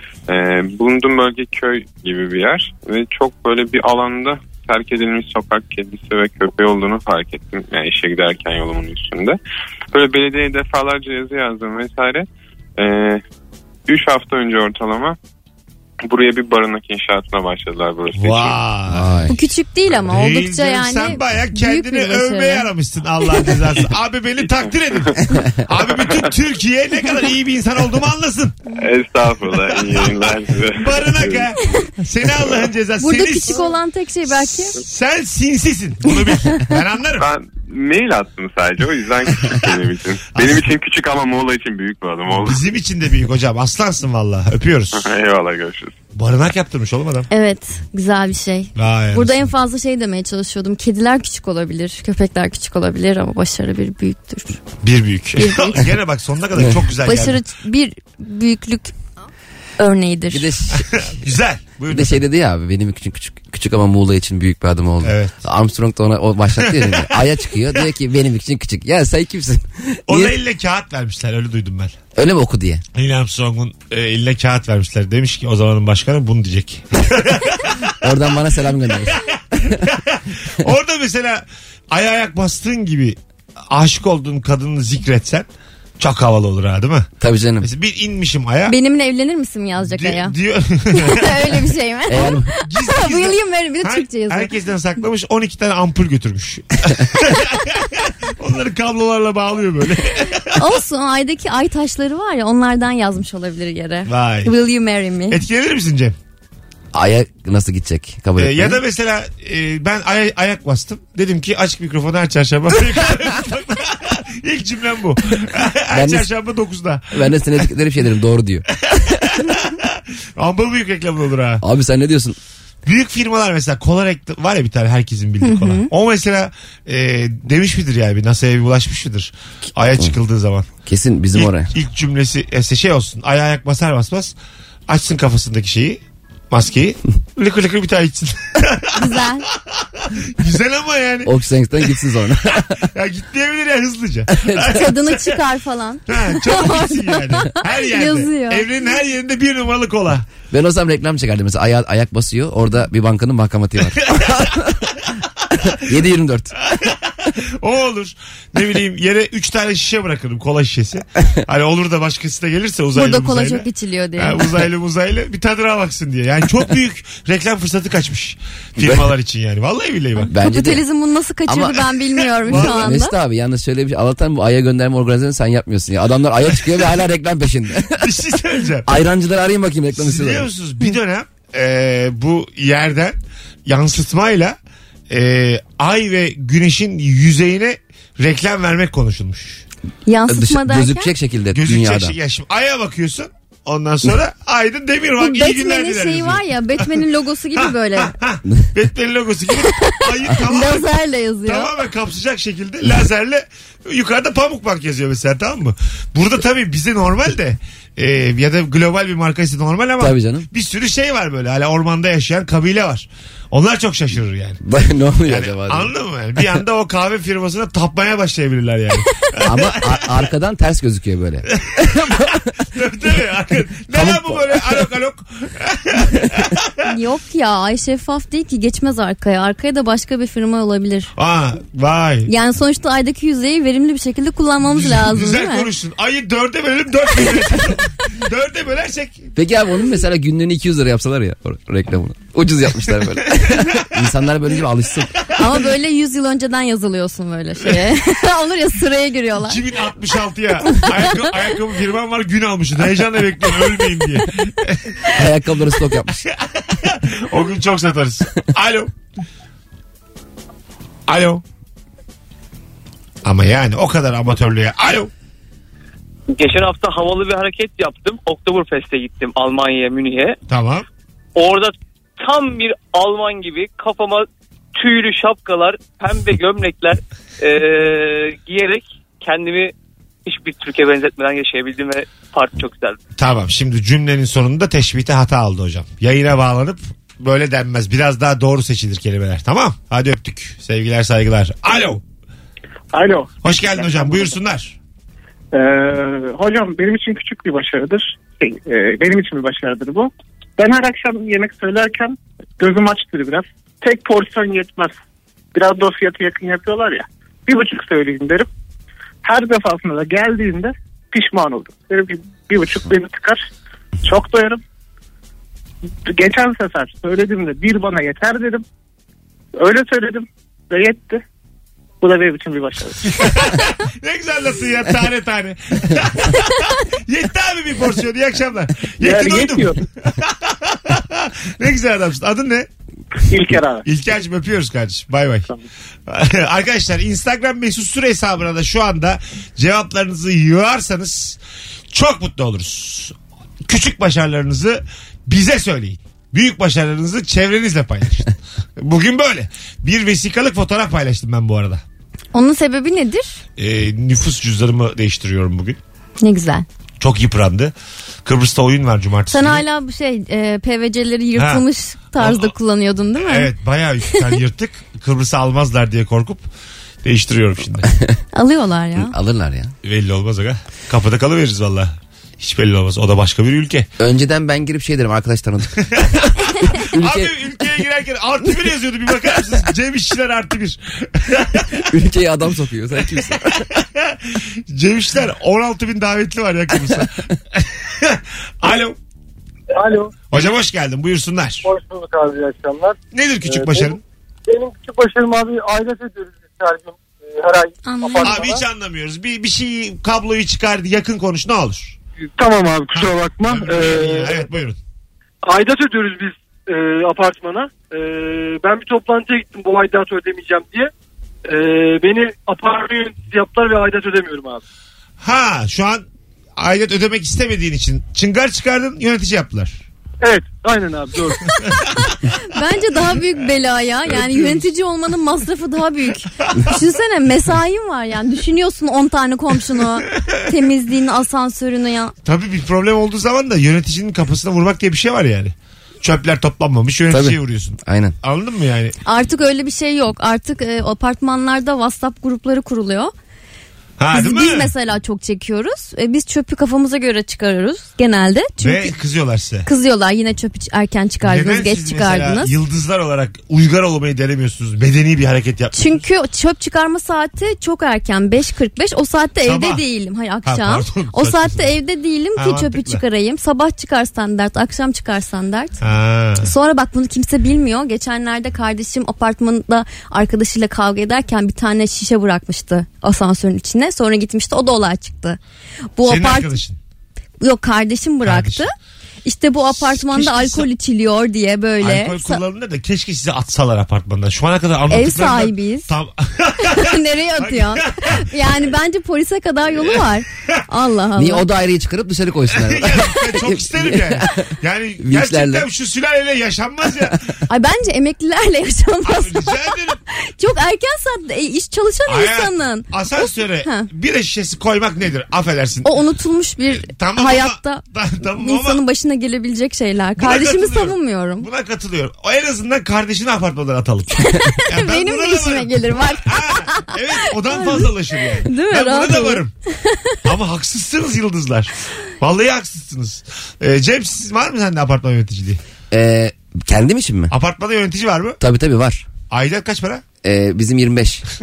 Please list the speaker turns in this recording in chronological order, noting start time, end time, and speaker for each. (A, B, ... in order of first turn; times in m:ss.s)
0:00.3-0:09.4 A
0:09.9-0:13.2 A
0:13.9-0:15.2 A
0:16.0-0:18.6 A
0:18.1-0:19.3 B
0:18.9-0:19.3 C
0:19.3-0:22.7 D
0:19.9-0:28.6 B
0:23.2-0:23.5 D
0:28.8-0:31.5 A
0:30.7-0:33.7 B
0:33.0-0:34.8 D
0:34.4-0:37.3 B
0:36.4-0:36.8 D
0:37.2-0:42.6 A
0:40.3-0:40.6 B
0:42.3-0:45.1 B
0:45.0-0:45.9 A
0:46.1-0:47.3 B
0:47.3-0:54.6 D
0:48.8-0:49.5 B
0:54.8-0:57.4 B
0:55.4-0:55.9 D
0:57.0-0:58.9 D
0:59.8-1:00.4 D
1:00.3-1:01.1 C
1:00.8-1:02.2 B
1:01.9-1:10.3 C
1:05.0-1:05.4 B
1:06.6-1:07.8 B
1:10.1-1:12.0 B
1:12.1-1:12.8 C
1:12.9-1:18.2 B
1:18.0-1:19.8 C
1:19.0-1:23.2 B
1:23.7-1:25.5 B
1:26.0-1:28.8 B
1:27.2-1:27.7 C
1:28.7-1:30.3 D
1:29.8-1:31.7 B
1:30.9-1:34.5 D
1:32.1-1:32.5 C
1:32.6-1:40.7 B
1:40.5-1:45.4 D
1:44.0-1:44.6 B
1:45.3-1:46.2 B
1:46.9-1:48.8 C
1:48.4-1:57.4 B
1:55.9-1:56.2 C
1:57.1-1:59.4 C
1:59.2-2:01.6 B
2:01.6-2:02.4 C
2:02.8-2:10.7 B
2:05.4-2:05.9 D
2:10.8-2:11.7 C
2:11.3-2:14.4 B
2:14.9-2:22.2 B
2:18.9-2:19.5 D
2:21.2-2:22.9 C
2:22.7-2:25.4 B
2:24.4-2:24.8 C
2:24.6-2:28.6 D
2:26.1-2:30.3 B
2:30.5-2:35.0 C
2:35.6-2:36.5 C
2:36.6-2:43.6 B
2:42.9-2:44.4 D
2:44.2-2:50.3 B
2:48.8-2:49.1 C
2:50.3-2:50.8 C
2:50.4-2:53.1 D
2:51.5-2:51.9 C
2:52.4-2:53.0 B
2:52.4-2:58.1 C
2:57.9-2:59.0 B
2:58.8-3:00.5 C
3:00.0-3:04.6 B
3:05.1-3:09.6 B
3:10.0-3:11.1 D
3:10.3-3:12.1 C
3:11.5-3:17.0 B
3:15.2-3:18.1 D
3:17.5-3:20.9 B
3:19.8-3:21.7 D
3:21.4-3:34.6 B
3:30.0-3:30.5 C
3:34.6-3:35.9 C
3:35.2-3:40.2 B
3:39.4-3:42.5 C
3:41.6-3:41.9 B
3:42.7-3:46.9 B
3:43.9-3:44.8 C
3:46.8-3:51.1 D
3:51.2-3:52.3 B
3:52.3-3:55.7 D
3:54.6-3:59.3 B
3:59.4-4:05.1 C
4:03.4-4:03.8 B
4:05.2-4:05.6 B
4:05.4-4:09.6 D
4:07.6-4:07.9 B
4:09.4-4:15.2 B
4:10.6-4:11.3 D
4:15.1-4:16.3 C
4:16.3-4:18.9 B
4:21.1-4:21.4 B
4:23.2-4:25.1 B
4:26.3-4:30.4 E
4:30.5-4:30.9 B
4:31.4-4:39.7 E
4:40.2-4:43.0 E
4:43.2-4:52.0 B
4:52.9-4:54.3 F
4:53.4-4:54.8 B
4:55.5-5:04.9 F
5:05.5-5:08.5 F
5:09.2-5:13.4 F
5:14.0-5:14.6 F
5:16.0-5:18.6 F
5:19.6-5:21.2 F
5:22.0-5:23.4 F
5:23.0-5:32.7 B
5:29.0-5:29.8 F
5:33.2-5:33.8 F
5:33.8-5:35.5 B
5:36.1-5:41.4 B
5:41.9-5:51.8 B
5:52.3-5:53.4 D
5:53.6-5:55.8 B
5:56.2-5:56.6 D
5:57.0-5:57.7 B
5:58.2-5:59.6 B
5:59.3-6:03.5 D
6:01.4-6:02.5 B
6:03.2-6:06.4 B
6:04.1-6:04.4 D
6:07.0-6:07.9 B
6:08.3-6:09.1 D
6:09.0-6:09.7 C
6:09.8-6:13.9 B
6:14.0-6:17.3 C
6:15.9-6:21.9 B
6:21.9-6:23.7 C
6:23.2-6:29.0 B
6:29.7-6:30.3 G
6:30.3-6:31.7 B
6:31.6-6:38.6 G
6:33.1-6:34.0 B
6:37.8-6:38.5 D
6:38.2-6:42.0 B
6:42.4-6:44.4 G
6:42.9-6:44.8 B
6:45.4-6:50.9 G
6:51.4-6:54.6 G
6:55.2-6:56.0 B
6:56.6-6:59.8 B
7:00.2-7:01.4 G
7:02.0-7:12.1 D
7:06.4-7:06.7 B
7:12.2-7:19.0 B
7:17.1-7:18.1 C
7:19.0-7:23.1 D
7:24.0-7:24.7 B
7:24.1-7:28.9 D
7:28.6-7:29.7 B
7:29.6-7:32.5 D
7:31.2-7:36.0 B
7:35.7-7:45.8 D
7:39.4-7:39.8 B
7:40.4-7:41.7 B
7:42.4-7:43.0 B
7:45.8-7:46.5 B
7:46.4-7:55.4 D
7:56.0-7:56.6 D
7:56.0-7:56.8 B
7:57.4-7:58.7 D
7:58.2-7:58.6 B
7:59.2-8:02.4 D
7:59.7-8:00.7 B
8:01.8-8:08.3 B
8:04.9-8:05.9 D
8:06.6-8:11.4 D
8:09.8-8:10.6 B
8:11.2-8:15.6 C
8:12.5-8:17.3 B
8:17.5-8:23.9 D
8:19.0-8:20.0 B
8:22.0-8:26.0 B
8:25.8-8:27.8 D
8:26.7-8:28.8 B
8:28.4-8:31.5 D
8:30.2-8:39.5 B
8:34.2-8:40.2 D
8:40.2-8:45.6 B
8:45.9-8:47.3 C
8:47.3-8:48.4 B
8:48.4-8:49.1 C
8:49.3-8:50.0 B
8:50.2-8:51.2 C